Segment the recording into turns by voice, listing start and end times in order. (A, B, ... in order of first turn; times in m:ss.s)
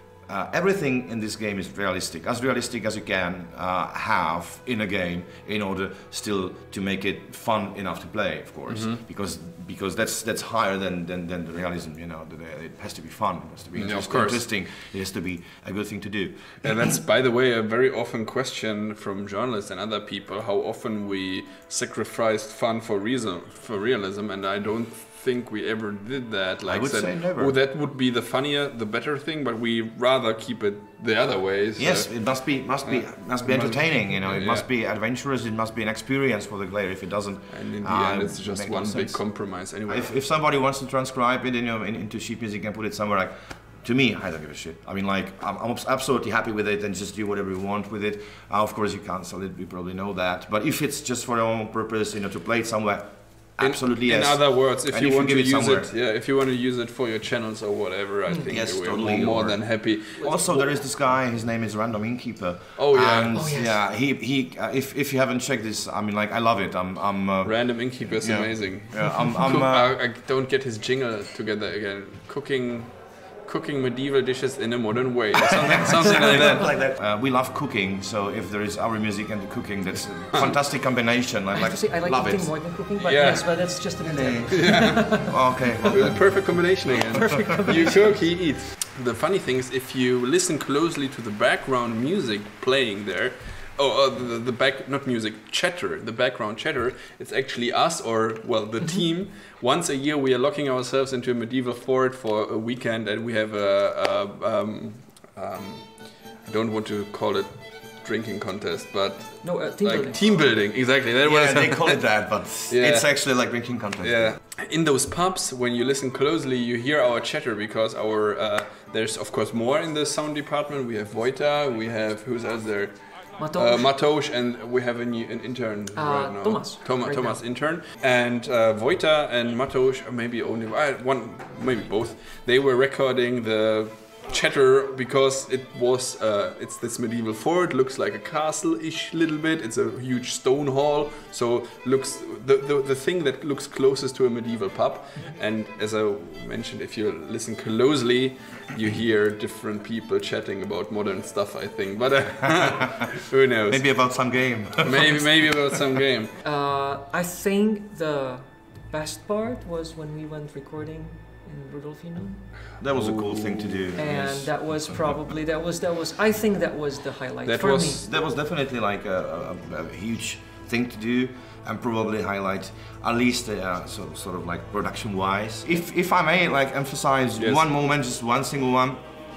0:00.2-0:16.7 A
0:08.7-0:09.0 B
0:13.8-0:14.4 B
0:16.6-0:34.6 B
0:26.6-0:27.6 A
0:31.8-0:55.9 A
0:37.5-0:40.1 B
0:53.6-1:00.9 B
0:58.5-1:10.0 A
1:02.8-1:03.4 B
1:03.3-1:03.8 C
1:07.4-1:16.8 B
1:15.4-1:22.7 A
1:21.5-1:25.9 C
1:23.0-1:23.8 B
1:24.0-1:27.4 A
1:24.6-1:25.3 B
1:25.9-1:53.4 B
1:27.1-1:28.2 C
1:49.4-1:50.3 C
1:51.2-1:54.4 A
1:54.0-2:36.3 B
2:03.4-2:03.9 C
2:05.9-2:07.4 C
2:32.4-2:32.7 A
2:33.7-2:36.0 A
2:36.4-2:42.6 C
2:42.8-2:45.2 A
2:42.9-2:43.9 B
2:43.9-2:48.0 C
2:47.4-2:48.0 B
2:48.0-2:59.0 A
2:57.4-2:57.6 B